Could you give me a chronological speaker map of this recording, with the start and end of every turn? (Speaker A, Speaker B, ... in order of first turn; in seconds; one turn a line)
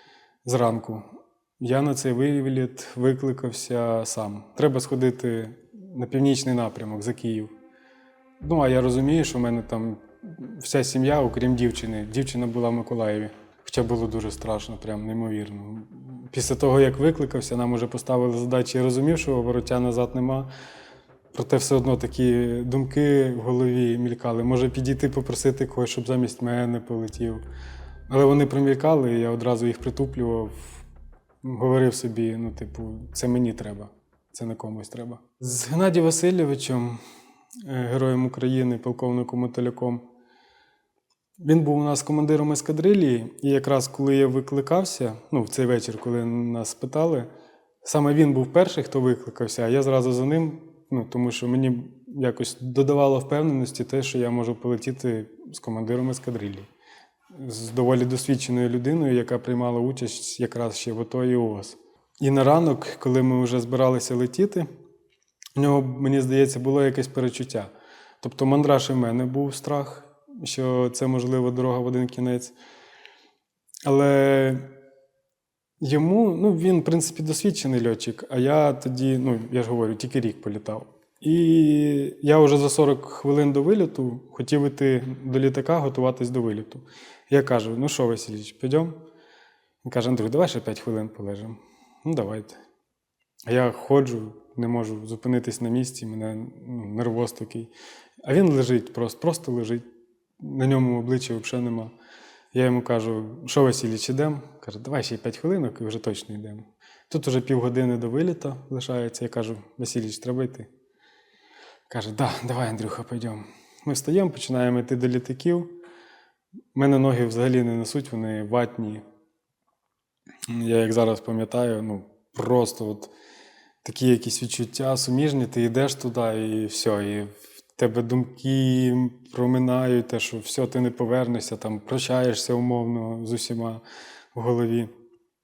Speaker A: 0.4-1.0
Speaker A: 1.6-7.5
Speaker A: 8.4-20.5
Speaker A: 21.3-27.4
Speaker A: 28.1-30.8
Speaker A: 31.4-37.0
Speaker A: 37.6-40.0
Speaker A: 41.4-47.3
Speaker A: 47.8-56.7
Speaker A: 57.3-64.7
Speaker A: 65.5-67.7
Speaker A: 68.2-72.5
Speaker A: 73.8-74.7
Speaker A: 75.8-89.0
Speaker A: 89.8-92.6
Speaker A: 93.5-97.7
Speaker A: 98.2-99.8
Speaker A: 100.4-101.9
Speaker A: 102.5-110.7
Speaker A: 111.9-115.7
Speaker A: 116.7-119.0
Speaker A: 120.5-123.1
Speaker A: 123.8-133.8
Speaker A: 134.3-134.9